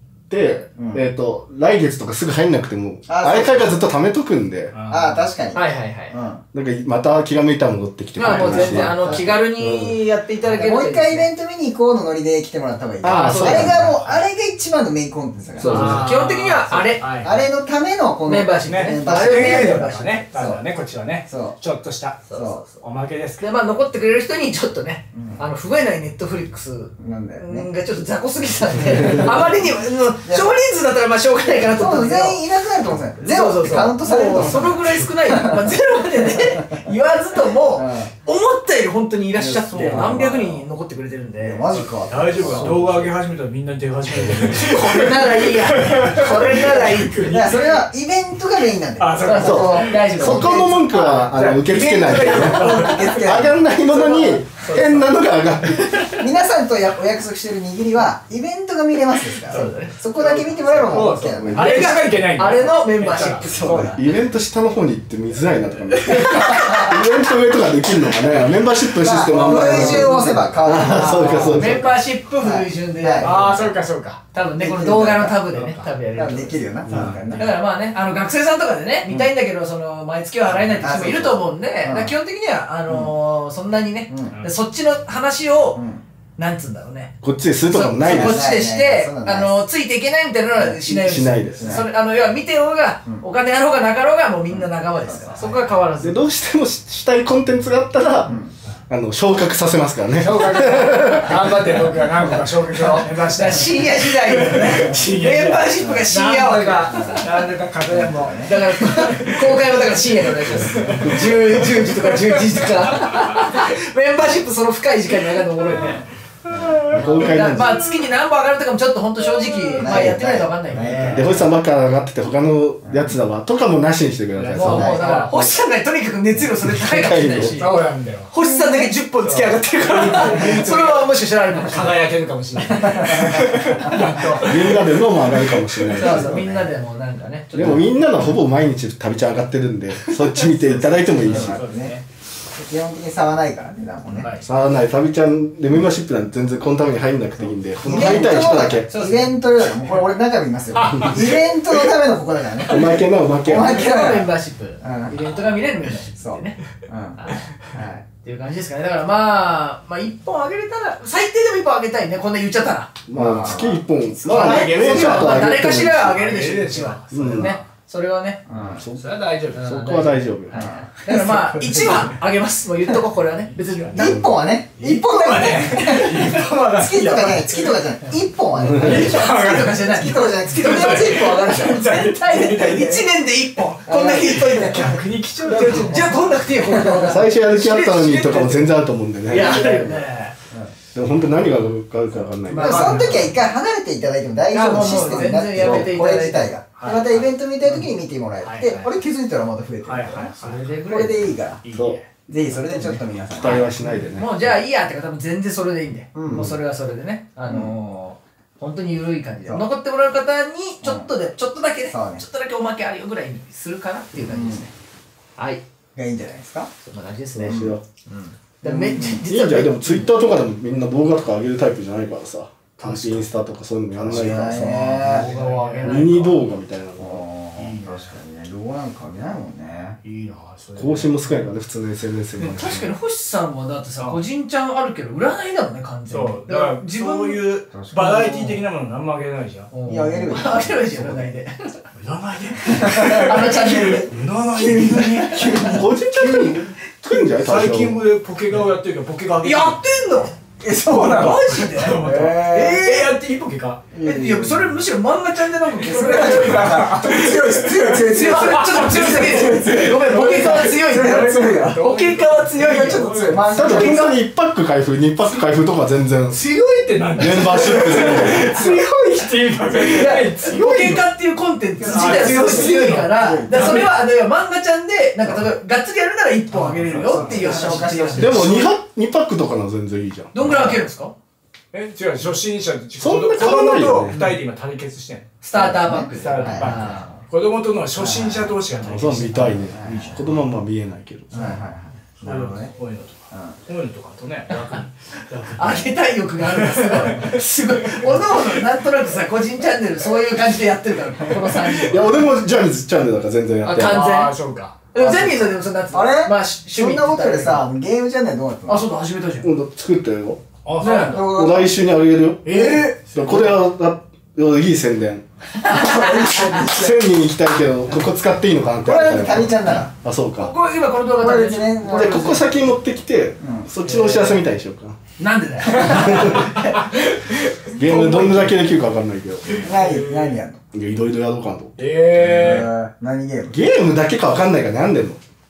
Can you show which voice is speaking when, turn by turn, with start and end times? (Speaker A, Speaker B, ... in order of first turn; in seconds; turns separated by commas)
Speaker A: 0.3-4.8, Speaker B: 0.8-1.1, Speaker B: 3.1-3.8, Speaker C: 4.7-5.3, Speaker B: 4.9-6.4, Speaker D: 5.5-6.2, Speaker A: 6.5-10.0, Speaker D: 8.2-11.3, Speaker B: 8.2-9.4, Speaker C: 8.3-8.8, Speaker B: 10.4-16.1, Speaker A: 13.0-14.0, Speaker D: 13.1-13.8, Speaker D: 15.6-17.1, Speaker C: 15.6-17.5, Speaker A: 15.7-16.0, Speaker B: 17.1-20.0, Speaker D: 18.3-20.6, Speaker C: 18.6-22.2, Speaker B: 21.3-21.6, Speaker D: 22.3-22.8, Speaker B: 22.3-22.6, Speaker C: 22.8-23.4, Speaker D: 23.4-32.4, Speaker B: 25.1-25.4, Speaker B: 27.0-27.7, Speaker B: 28.9-29.6, Speaker B: 30.2-30.6, Speaker B: 31.6-36.9, Speaker D: 33.2-41.6, Speaker C: 34.3-34.9, Speaker B: 37.7-38.1, Speaker B: 39.3-40.6, Speaker C: 39.7-40.2, Speaker B: 41.4-43.1, Speaker C: 41.7-47.8, Speaker D: 44.3-47.2, Speaker B: 47.1-50.7, Speaker C: 49.0-50.0, Speaker D: 49.2-51.4, Speaker A: 49.4-56.0, Speaker C: 51.3-53.4, Speaker B: 52.2-54.1, Speaker D: 54.0-55.1, Speaker B: 56.0-61.9, Speaker D: 59.5-59.9, Speaker C: 59.5-64.0, Speaker A: 61.2-61.9, Speaker D: 61.5-64.0, Speaker B: 63.1-63.9, Speaker A: 63.6-72.0, Speaker C: 65.9-66.9, Speaker D: 66.3-66.9, Speaker B: 69.0-71.5, Speaker D: 69.3-73.8, Speaker C: 70.0-70.2, Speaker C: 71.0-71.7, Speaker B: 72.4-73.5, Speaker C: 73.2-74.2, Speaker D: 74.3-76.6, Speaker B: 74.6-75.5, Speaker C: 75.5-75.9, Speaker B: 76.1-77.6, Speaker C: 76.8-77.5, Speaker D: 77.4-85.8, Speaker B: 79.1-79.3, Speaker B: 80.6-82.2, Speaker B: 82.9-83.1, Speaker B: 84.1-84.4, Speaker B: 85.8-86.0, Speaker D: 86.4-87.1, Speaker A: 87.2-88.5, Speaker D: 87.6-96.2, Speaker B: 88.0-89.6, Speaker B: 90.5-91.9, Speaker A: 91.0-91.8, Speaker B: 94.5-95.6, Speaker A: 96.0-101.7, Speaker C: 100.2-113.5, Speaker D: 102.4-107.2, Speaker B: 105.8-107.3, Speaker B: 107.8-108.6, Speaker D: 108.1-116.1, Speaker C: 115.7-117.7, Speaker B: 116.5-116.9, Speaker A: 116.9-117.8, Speaker D: 116.9-121.4, Speaker B: 119.8-121.5, Speaker C: 120.8-121.2, Speaker A: 121.1-125.0, Speaker B: 122.8-123.1, Speaker C: 124.3-125.3, Speaker D: 124.5-127.7, Speaker B: 124.6-125.0, Speaker A: 126.7-127.6, Speaker C: 127.5-128.3, Speaker D: 128.3-131.9, Speaker C: 129.2-135.9, Speaker B: 132.6-134.0, Speaker D: 132.7-134.5, Speaker A: 134.4-136.3, Speaker D: 135.9-138.0, Speaker B: 136.0-136.7, Speaker A: 137.5-141.6, Speaker C: 140.1-140.5, Speaker B: 140.7-142.0, Speaker C: 141.0-142.0, Speaker B: 142.5-144.3, Speaker D: 144.1-144.4, Speaker A: 144.4-148.9, Speaker B: 147.4-155.2, Speaker D: 148.0-148.3, Speaker D: 148.9-149.3, Speaker C: 150.8-151.2, Speaker A: 150.9-151.2, Speaker A: 152.7-153.9, Speaker D: 153.4-156.6, Speaker B: 156.2-157.2, Speaker D: 157.2-157.5, Speaker B: 157.7-158.1, Speaker D: 158.2-162.9, Speaker A: 163.1-166.2, Speaker B: 163.1-164.7, Speaker C: 164.2-167.6, Speaker D: 164.2-168.4, Speaker A: 167.1-167.6, Speaker B: 168.5-168.8, Speaker A: 168.7-170.7, Speaker C: 169.0-169.6, Speaker D: 169.6-174.2, Speaker B: 170.5-172.2, Speaker C: 173.7-174.1, Speaker B: 173.9-181.8, Speaker C: 174.8-177.9, Speaker D: 175.3-175.9, Speaker A: 178.6-179.1, Speaker C: 178.7-183.1, Speaker D: 178.8-185.0, Speaker B: 183.9-185.0, Speaker C: 184.0-186.2, Speaker D: 185.5-188.7, Speaker A: 187.0-190.1, Speaker D: 189.3-190.3, Speaker C: 189.4-189.7, Speaker A: 190.9-193.2, Speaker D: 192.5-193.2, Speaker C: 192.5-193.3, Speaker B: 192.6-201.6, Speaker D: 194.5-196.6, Speaker A: 194.7-195.9, Speaker C: 196.8-197.8, Speaker C: 198.4-198.9, Speaker C: 199.8-202.1, Speaker D: 200.4-201.3, Speaker A: 201.7-202.0, Speaker B: 202.3-203.7, Speaker A: 203.2-204.4, Speaker D: 203.4-214.7, Speaker B: 206.1-206.6, Speaker B: 207.4-207.7, Speaker B: 209.4-209.7, Speaker B: 210.8-211.1, Speaker B: 211.9-212.2, Speaker B: 214.2-214.7, Speaker D: 215.4-215.6, Speaker B: 215.9-216.7, Speaker D: 216.8-220.1, Speaker B: 217.4-217.8, Speaker A: 217.4-217.8, Speaker B: 218.6-219.2, Speaker A: 219.2-225.1, Speaker C: 222.8-223.3, Speaker B: 224.0-225.3, Speaker C: 224.0-226.4, Speaker D: 225.0-226.4, Speaker A: 225.8-227.2, Speaker B: 227.0-230.0, Speaker C: 227.6-228.2, Speaker C: 230.0-231.5, Speaker A: 230.8-232.9, Speaker D: 232.4-237.6, Speaker C: 236.1-239.7, Speaker B: 237.7-238.6, Speaker D: 239.7-241.8, Speaker B: 239.9-241.3, Speaker C: 242.0-245.6, Speaker B: 242.7-243.9, Speaker D: 242.8-244.1, Speaker B: 244.5-245.8, Speaker A: 245.6-248.0, Speaker C: 246.2-249.8, Speaker D: 249.4-253.0, Speaker B: 250.6-251.4, Speaker C: 251.5-253.8, Speaker B: 252.0-253.1, Speaker B: 253.9-254.8, Speaker D: 254.0-256.9, Speaker C: 255.8-264.0, Speaker B: 255.8-264.1, Speaker D: 257.9-264.1, Speaker A: 263.5-266.4, Speaker C: 266.3-271.1, Speaker A: 267.2-268.6, Speaker D: 269.7-278.7, Speaker B: 271.8-273.9, Speaker C: 271.8-273.9, Speaker C: 276.5-277.9, Speaker B: 277.1-278.6, Speaker A: 278.2-280.6, Speaker D: 280.3-281.1, Speaker B: 280.4-280.8, Speaker C: 281.7-285.3, Speaker A: 283.0-284.3, Speaker D: 285.4-287.2, Speaker B: 285.5-286.7, Speaker C: 286.2-290.4, Speaker B: 288.0-288.6, Speaker A: 288.8-291.6, Speaker B: 289.7-290.2, Speaker D: 289.8-290.3, Speaker B: 291.3-292.7, Speaker C: 292.2-297.4, Speaker D: 294.5-294.8, Speaker D: 295.6-302.3, Speaker A: 301.6-304.0, Speaker D: 303.6-304.3, Speaker C: 303.6-304.9, Speaker D: 304.9-307.7, Speaker B: 305.0-308.9, Speaker D: 308.7-309.5, Speaker A: 309.4-310.4, Speaker C: 310.6-311.2, Speaker D: 310.8-311.2, Speaker B: 310.9-311.8, Speaker A: 311.2-315.2, Speaker C: 312.4-313.6, Speaker B: 312.6-312.9, Speaker D: 315.6-316.6, Speaker B: 315.7-317.0, Speaker A: 316.5-320.5, Speaker B: 318.8-319.9, Speaker D: 320.4-322.5, Speaker B: 321.1-322.4, Speaker A: 321.8-325.0, Speaker B: 323.4-323.7, Speaker C: 323.8-324.4, Speaker D: 325.2-326.8, Speaker C: 325.7-328.7, Speaker A: 325.7-326.6, Speaker A: 327.7-329.6, Speaker C: 329.5-330.4, Speaker B: 329.6-330.6, Speaker A: 330.7-331.9, Speaker C: 331.8-332.7, Speaker B: 332.2-333.6, Speaker A: 333.5-335.2